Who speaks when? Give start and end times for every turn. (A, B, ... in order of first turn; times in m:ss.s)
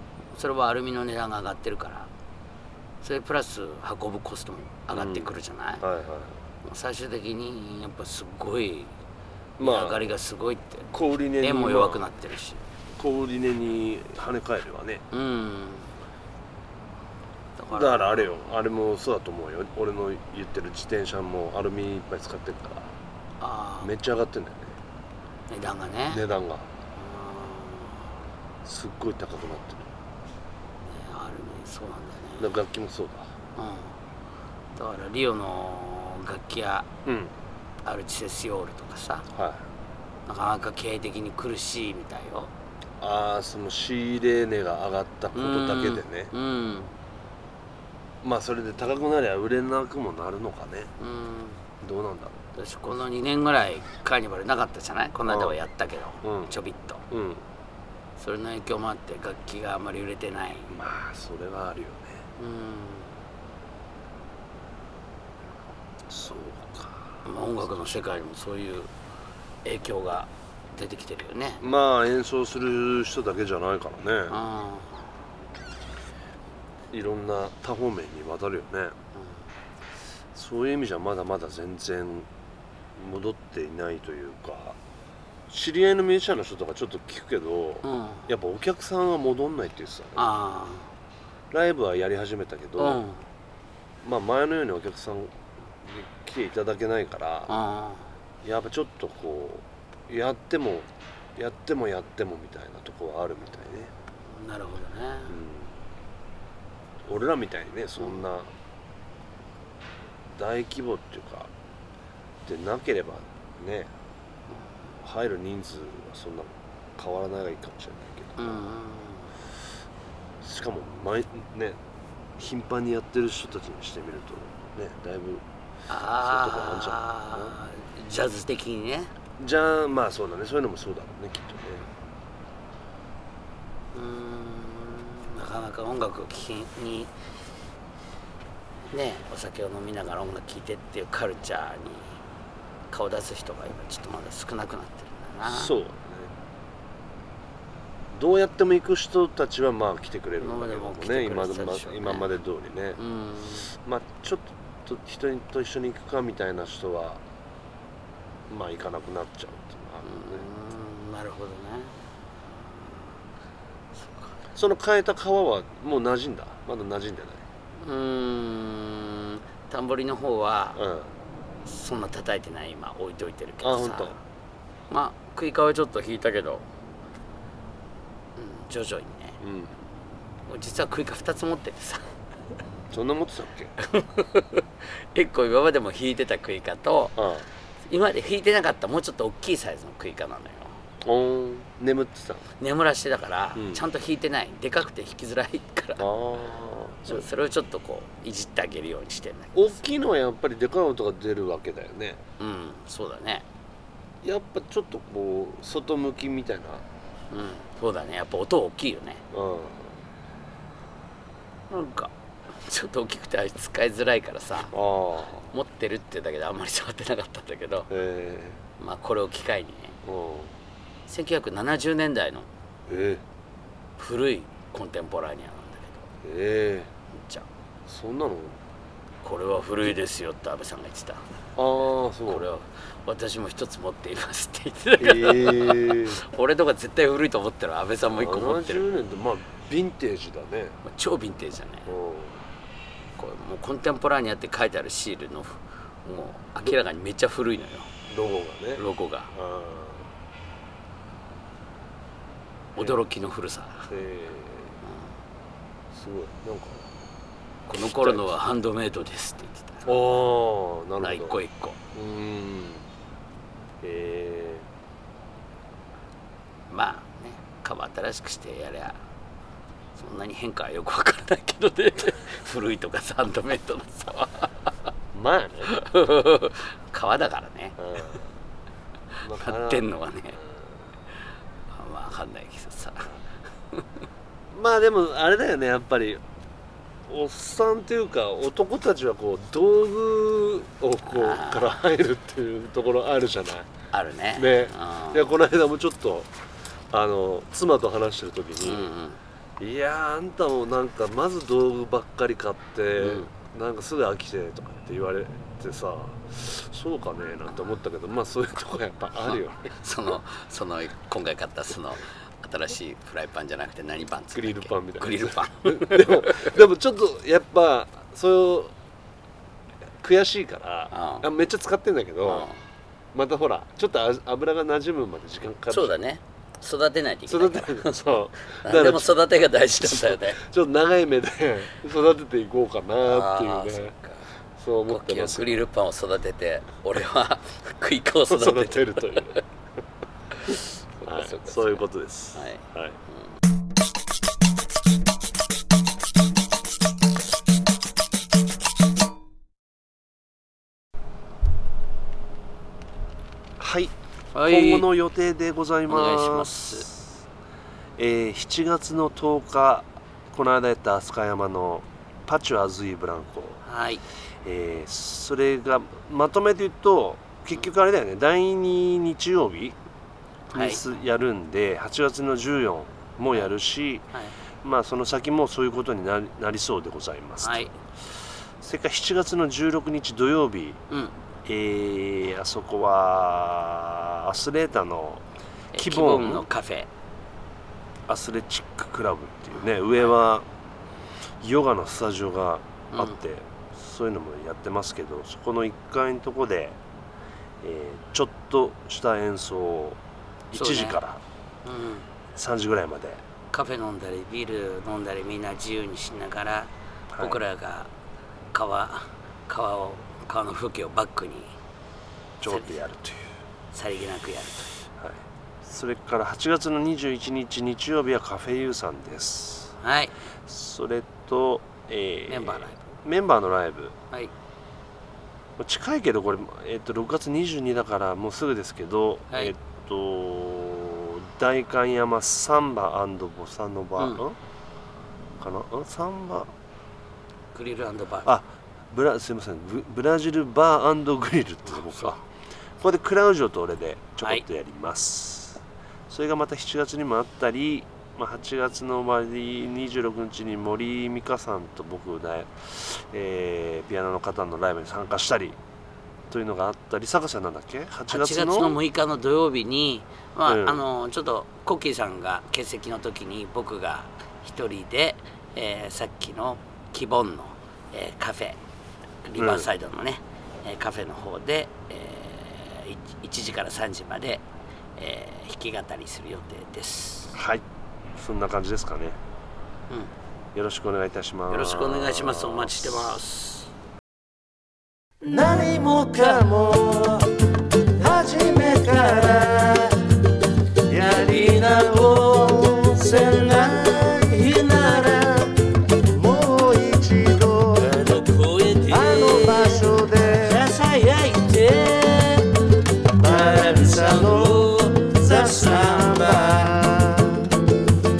0:00.3-0:02.1 A
0:03.0-0:05.8 A
0:04.9-0:06.4 B
0:06.6-0:08.9 A
0:09.6-0:10.0 B
0:09.6-0:12.6 A
0:10.9-0:12.0 B
0:13.0-0:15.0 B
0:15.1-0:15.9 A
0:17.6-0:18.3 A
0:17.7-0:22.9 B
0:23.4-0:23.9 A
0:23.8-0:24.8 B
0:25.5-0:26.2 A
0:26.1-0:26.7 B
0:27.0-0:28.1 A
0:28.6-0:29.9 B
0:30.9-0:32.5 A
0:32.4-0:33.3 B
0:33.6-0:34.0 A
0:34.7-0:36.9 A
0:37.0-0:37.3 B
0:37.8-0:39.2 A
0:39.3-0:39.6 B
0:40.3-0:42.5 A
0:43.0-0:46.3 B
0:45.3-0:46.9 A
0:48.2-0:50.9 B
0:51.0-0:51.6 A
0:51.8-0:52.4 B
0:52.6-0:57.0 A
0:55.3-0:55.6 B
0:56.2-0:56.5 B
0:57.1-0:57.4 B
0:58.2-1:00.7 A
1:00.7-1:02.2 B
1:02.4-1:03.1 A
1:06.1-1:07.1 B
1:07.2-1:08.9 A
1:09.6-1:11.6 A
1:11.6-1:14.4 B
1:14.3-1:15.1 A
1:16.9-1:18.9 B
1:20.3-1:22.3 B
1:22.9-1:24.8 B
1:25.5-1:30.3 B
1:27.8-1:28.3 A
1:30.2-1:30.9 A
1:31.5-1:33.0 B
1:32.8-1:33.2 A
1:34.0-1:37.5 B
1:37.5-1:38.1 A
1:38.4-1:43.9 B
1:44.2-1:45.4 A
1:45.3-1:45.8 B
1:47.0-1:48.5 B
1:50.3-1:51.5 B
1:52.4-1:53.9 B
1:55.0-1:58.6 B
1:58.4-1:59.3 A
2:00.4-2:01.8 B
2:02.4-2:05.4 B
2:05.9-2:09.1 A
2:06.2-2:07.6 B
2:09.4-2:11.9 B
2:13.9-2:17.1 A
2:18.9-2:22.2 A
2:22.9-2:25.7 A
2:25.4-2:26.3 B
2:28.1-2:33.0 B
2:30.4-2:32.3 A
2:33.0-2:33.7 A
2:33.7-2:37.2 B
2:38.5-2:40.4 B
2:40.0-2:41.9 A
2:42.6-2:43.0 A
2:44.0-2:44.3 A
2:44.5-2:47.4 B
2:47.8-2:50.8 A
2:50.8-2:51.1 B
2:51.6-2:54.2 A
2:53.6-2:54.2 B
2:54.9-2:56.6 A
2:58.4-2:59.4 A
2:59.4-2:59.8 B
3:00.5-3:02.1 A
3:02.9-3:03.7 B
3:03.8-3:07.2 A
3:07.2-3:07.4 B
3:07.9-3:10.8 A
3:11.0-3:12.4 B
3:12.6-3:16.1 A
3:13.6-3:13.8 B
3:16.0-3:17.3 B
3:17.1-3:19.8 A
3:19.5-3:22.2 B
3:22.4-3:23.4 A
3:24.2-3:26.8 B
3:27.3-3:29.2 A
3:29.3-3:30.0 B
3:31.7-3:34.7 A
3:34.7-3:35.5 B
3:35.5-3:37.9 A
3:37.9-3:38.6 B
3:38.8-3:40.0 A
3:40.0-3:40.5 B
3:41.1-3:42.5 A
3:42.9-3:43.2 B
3:44.0-3:46.1 A
3:46.2-3:46.9 B
3:47.1-3:47.5 A
3:47.9-3:48.6 B
3:49.2-3:51.2 A
3:51.6-3:52.5 B
3:52.3-3:58.9 A
3:55.0-3:56.2 B
3:58.1-4:00.8 B
4:00.8-4:01.9 A
4:01.8-4:02.4 B
4:03.2-4:07.9 A
4:08.1-4:10.1 B
4:08.8-4:09.3 A
4:12.8-4:13.9 A
4:13.9-4:14.8 B
4:14.8-4:15.1 A
4:15.9-4:16.9 B
4:17.7-4:19.9 A
4:17.8-4:18.4 B
4:19.8-4:21.4 B
4:21.0-4:21.8 A
4:21.9-4:22.9 B
4:23.8-4:24.7 B
4:26.7-4:29.0 A
4:29.9-4:34.7 A
4:35.1-4:35.7 B
4:35.7-4:38.2 A
4:37.8-4:38.3 B
4:39.2-4:39.9 B
4:39.3-4:40.4 A
4:41.7-4:43.1 A
4:44.5-4:46.2 B
4:47.1-4:53.7 B
4:51.1-4:51.8 A
4:53.9-4:55.3 A
4:54.4-4:56.3 B
4:56.9-4:58.9 B
4:58.6-4:59.2 A
4:59.6-5:09.7 B
5:03.0-5:03.3 A
5:09.7-5:16.5 A
5:14.3-5:18.7 B
5:20.0-5:22.5 B
5:20.9-5:21.2 A
5:22.2-5:22.6 A
5:23.1-5:26.0 B
5:25.7-5:30.4 A
5:27.3-5:29.1 B
5:29.8-5:33.9 B
5:33.0-5:34.3 A
5:34.6-5:35.6 B
5:34.9-5:39.4 A
5:38.3-5:39.4 B
5:40.4-5:41.8 A
5:41.0-5:43.0 B
5:42.3-5:43.2 A
5:53.6-5:53.9 B
5:54.3-5:54.9 A
5:54.4-5:57.0 B
5:55.9-5:56.9 A
5:58.0-6:03.6 B
6:03.6-6:04.0 A
6:04.4-6:09.8 B
6:10.5-6:10.8 A
6:10.5-6:14.1 B
6:14.6-6:17.7 B
6:17.4-6:17.7 A
6:18.6-6:20.8 B
6:20.9-6:21.1 A
6:21.4-6:26.5 B
6:25.7-6:26.9 A
6:28.1-6:30.5 B
6:31.4-6:36.8 B
6:32.9-6:33.2 A
6:37.6-6:40.0 B
6:40.5-6:41.2 B
6:40.5-6:41.0 A
6:41.6-6:42.1 A
6:42.3-6:43.2 B
6:43.5-6:47.9 A
6:47.1-6:47.4 B
6:48.5-6:51.5 A
6:52.4-6:53.2 B
6:53.7-6:54.7 A
6:55.0-6:59.7 B
6:59.8-7:00.1 A
7:00.4-7:03.9 B
7:02.3-7:02.8 A
7:05.6-7:14.4 B
7:15.4-7:16.5 B
7:17.5-7:18.3 A
7:18.2-7:22.2 B
7:21.9-7:22.1 A
7:22.8-7:35.6 B
7:36.3-7:38.8 B
7:38.1-7:48.6 A
7:40.4-7:40.8 B
7:49.2-7:54.4 A
7:49.4-7:49.7 B
7:55.0-7:57.4 A
7:57.3-7:57.6 B
7:58.1-7:59.2 B
8:00.5-8:03.2 B
8:01.5-8:03.7 A
8:05.2-8:07.3 C
8:08.0-8:10.0 C
8:10.9-8:18.1 C
8:17.8-8:19.9 A
8:18.9-8:20.6 C
8:20.4-8:22.4 A
8:23.2-8:27.5 C
8:23.4-8:25.0 A
8:25.5-8:26.4 A